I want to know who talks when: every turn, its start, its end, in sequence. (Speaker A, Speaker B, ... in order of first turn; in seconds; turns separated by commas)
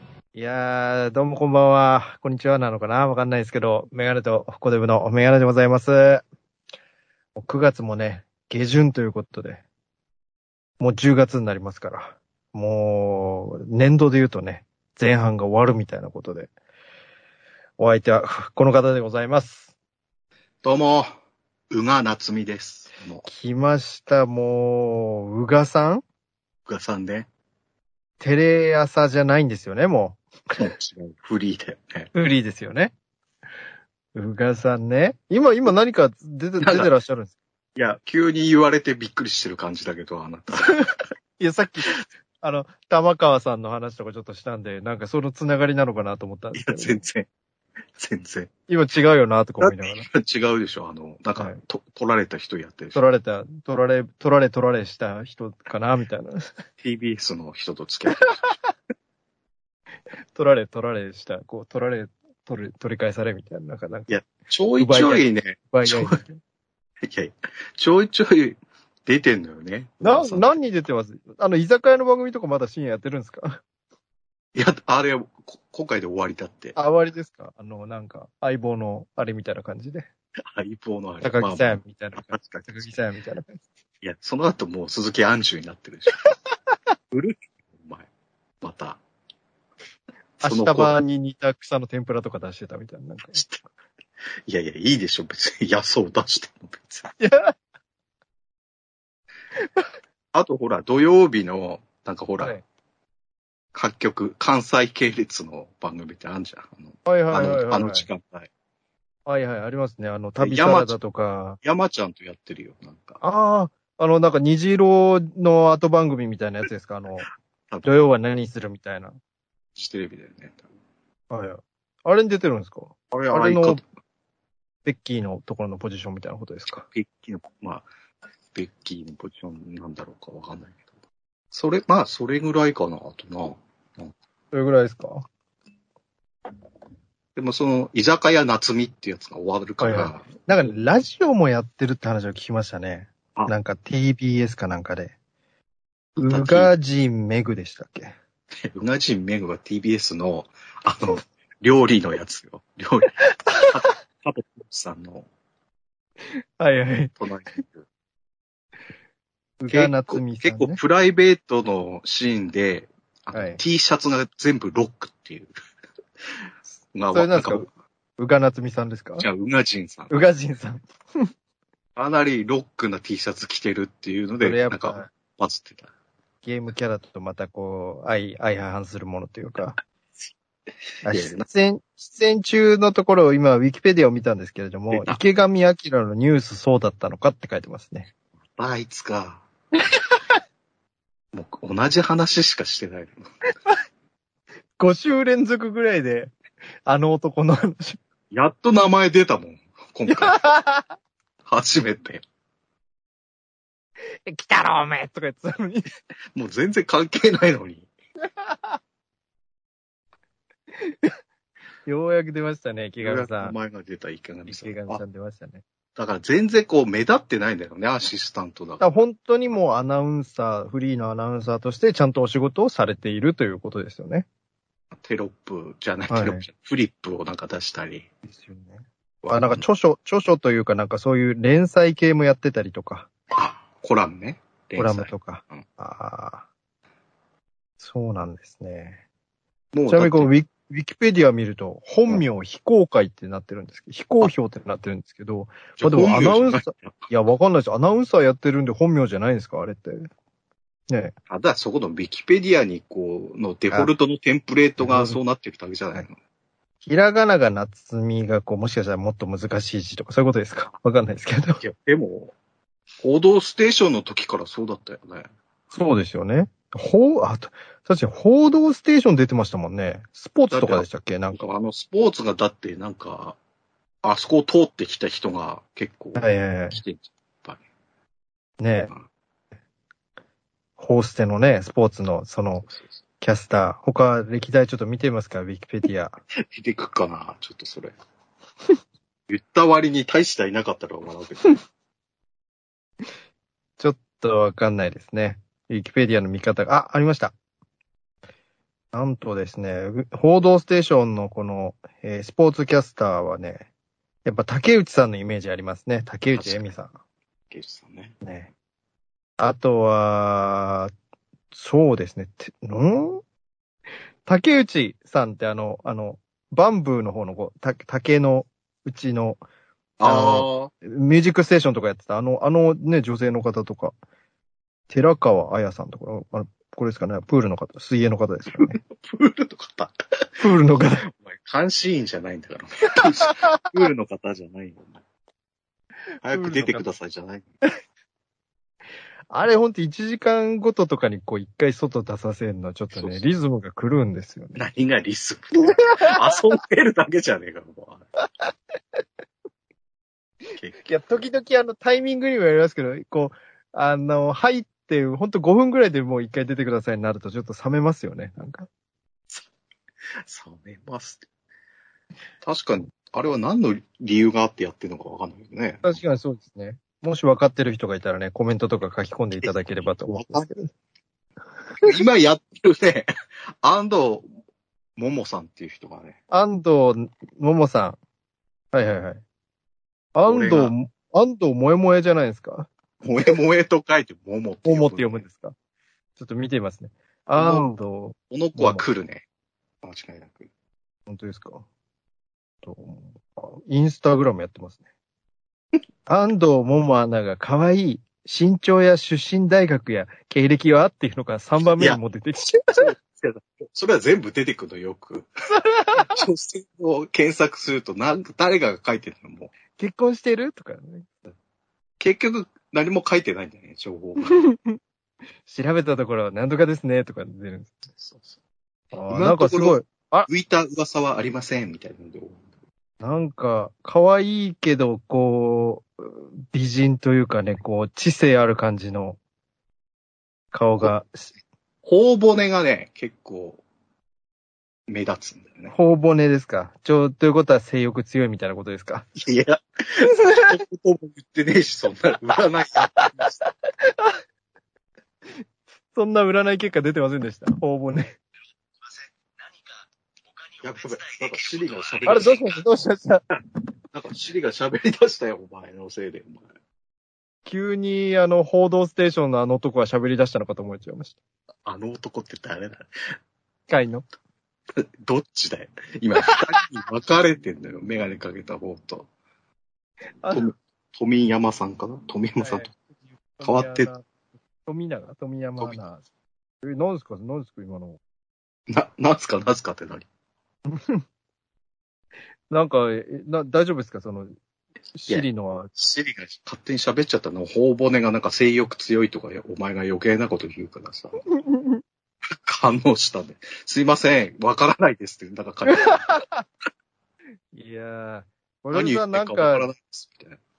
Speaker A: 0.3-6.2, Speaker A: 7.4-9.6, Speaker A: 10.8-16.5, Speaker A: 17.8-19.7, Speaker B: 20.6-21.1, Speaker B: 21.7-23.2, Speaker A: 23.2-26.0, Speaker B: 26.7-27.3, Speaker A: 28.2-30.2, Speaker B: 30.6-32.1, Speaker A: 32.1-32.9, Speaker A: 34.1-37.4, Speaker B: 36.6-36.9, Speaker B: 37.8-40.8, Speaker A: 40.6-47.0, Speaker B: 46.5-47.3, Speaker B: 48.0-48.5, Speaker A: 48.7-50.1, Speaker B: 49.6-53.0, Speaker A: 52.9-56.5, Speaker B: 56.8-58.5, Speaker A: 60.3-64.3, Speaker B: 64.1-66.2, Speaker A: 64.8-66.4, Speaker B: 67.0-70.6, Speaker A: 70.0-73.6, Speaker B: 74.5-76.8, Speaker A: 76.8-80.1, Speaker B: 80.5-82.9, Speaker A: 81.2-83.6, Speaker B: 84.0-86.2, Speaker B: 87.1-88.1, Speaker B: 88.6-89.0, Speaker B: 90.4-91.0, Speaker A: 90.4-93.4, Speaker B: 93.3-93.6, Speaker B: 94.5-97.1, Speaker A: 97.2-97.5, Speaker A: 99.6-99.8, Speaker B: 100.3-102.6, Speaker B: 103.7-108.5, Speaker A: 107.1-108.1, Speaker A: 109.3-111.6, Speaker B: 110.4-111.0, Speaker B: 111.6-113.2, Speaker A: 113.2-117.3, Speaker A: 117.8-119.1, Speaker B: 119.8-120.7, Speaker A: 121.3-123.8, Speaker B: 123.1-123.8, Speaker A: 124.8-126.9, Speaker B: 126.9-127.9, Speaker B: 128.5-130.8, Speaker B: 131.5-134.1, Speaker A: 134.5-135.3, Speaker B: 137.4-140.3, Speaker A: 139.8-145.1, Speaker A: 146.2-148.2, Speaker B: 146.2-146.7, Speaker B: 148.6-153.2, Speaker A: 153.5-153.8, Speaker B: 153.7-155.3, Speaker A: 156.6-157.1, Speaker B: 157.2-157.9, Speaker A: 159.6-160.8, Speaker B: 159.7-165.6, Speaker A: 163.3-163.6, Speaker B: 166.9-167.7, Speaker A: 167.1-167.7, Speaker A: 168.2-169.3, Speaker B: 169.2-170.1, Speaker A: 170.1-171.3, Speaker B: 172.0-175.9, Speaker A: 174.4-175.1, Speaker A: 176.4-179.8, Speaker A: 181.1-188.1, Speaker B: 181.1-181.4, Speaker B: 184.9-185.2, Speaker B: 188.6-189.4, Speaker B: 191.3-193.3, Speaker A: 194.8-196.3, Speaker A: 196.9-198.0, Speaker B: 198.3-200.4, Speaker A: 200.1-200.9, Speaker B: 201.5-202.2, Speaker A: 204.3-205.9, Speaker B: 206.3-207.9, Speaker A: 208.4-208.8, Speaker A: 210.8-211.1, Speaker A: 211.9-213.6, Speaker B: 213.0-215.0, Speaker A: 214.5-215.6, Speaker B: 216.0-218.8, Speaker A: 218.8-224.3, Speaker B: 224.9-228.1, Speaker A: 226.1-226.4, Speaker A: 228.3-233.1, Speaker B: 229.2-229.6, Speaker B: 233.3-235.6, Speaker A: 234.8-236.4, Speaker A: 237.8-239.0, Speaker B: 239.7-240.3, Speaker A: 239.9-250.1, Speaker B: 245.8-247.0, Speaker A: 250.9-251.2, Speaker B: 251.3-256.2, Speaker A: 254.8-255.2, Speaker A: 256.8-261.6, Speaker B: 261.6-262.3, Speaker B: 263.0-265.3, Speaker A: 265.7-271.4, Speaker B: 270.5-273.4, Speaker B: 274.0-277.6, Speaker A: 276.2-276.8, Speaker A: 278.6-278.9, Speaker A: 280.8-282.7, Speaker A: 283.2-286.2, Speaker B: 286.5-288.0, Speaker B: 289.3-291.6, Speaker A: 293.8-297.3, Speaker A: 298.9-303.7, Speaker A: 304.2-306.9, Speaker B: 306.3-306.7, Speaker B: 307.5-308.1, Speaker A: 308.2-308.5, Speaker A: 309.4-310.9, Speaker A: 311.5-313.2, Speaker A: 314.3-319.4, Speaker B: 320.0-320.7, Speaker A: 320.0-323.9, Speaker A: 324.9-328.8, Speaker B: 328.7-330.3, Speaker A: 330.4-331.1, Speaker B: 331.0-335.0, Speaker A: 333.2-333.7, Speaker B: 336.2-337.5, Speaker A: 336.3-336.9, Speaker A: 339.3-344.6, Speaker B: 342.9-343.2, Speaker B: 344.6-348.1, Speaker A: 345.7-346.1, Speaker B: 350.6-351.2, Speaker A: 350.8-358.7, Speaker B: 360.2-361.2, Speaker B: 362.4-366.0, Speaker A: 365.8-370.7, Speaker B: 369.4-370.5, Speaker B: 371.8-373.1, Speaker B: 373.6-374.3, Speaker B: 375.0-376.2, Speaker A: 376.3-378.0, Speaker A: 378.7-379.2, Speaker A: 380.1-382.7, Speaker B: 380.3-380.7, Speaker B: 383.0-385.2, Speaker A: 384.6-385.6, Speaker A: 386.2-388.8, Speaker B: 387.4-387.7, Speaker B: 388.3-389.2, Speaker B: 389.8-390.5, Speaker A: 391.1-391.6, Speaker A: 392.6-394.8, Speaker A: 396.1-402.9, Speaker B: 402.8-405.3, Speaker A: 405.5-406.2, Speaker B: 405.9-409.5, Speaker A: 409.8-411.1, Speaker B: 412.0-414.4, Speaker A: 414.4-414.8, Speaker A: 415.5-417.8, Speaker B: 418.0-418.4, Speaker A: 418.9-420.3, Speaker B: 419.1-422.4, Speaker A: 423.0-429.2, Speaker A: 430.5-431.3, Speaker B: 431.8-433.6, Speaker B: 434.9-435.7, Speaker A: 435.7-439.1, Speaker B: 439.1-443.3, Speaker A: 440.2-440.5, Speaker A: 443.0-444.2, Speaker A: 445.9-448.2, Speaker B: 450.6-452.6, Speaker A: 452.1-453.2, Speaker B: 453.9-456.5, Speaker A: 457.5-461.2, Speaker B: 461.6-463.2, Speaker A: 463.7-464.1, Speaker B: 464.8-469.1, Speaker A: 470.2-470.5, Speaker B: 470.3-472.7, Speaker A: 472.4-472.8, Speaker A: 473.4-474.1, Speaker B: 473.4-473.9, Speaker A: 474.7-476.1, Speaker A: 476.6-478.0, Speaker B: 478.7-480.1, Speaker A: 480.7-481.0, Speaker A: 482.5-484.4, Speaker A: 484.9-485.7, Speaker B: 485.1-491.2, Speaker A: 491.3-491.8, Speaker B: 492.3-496.2, Speaker A: 495.7-496.4, Speaker A: 497.5-499.7, Speaker B: 498.7-500.4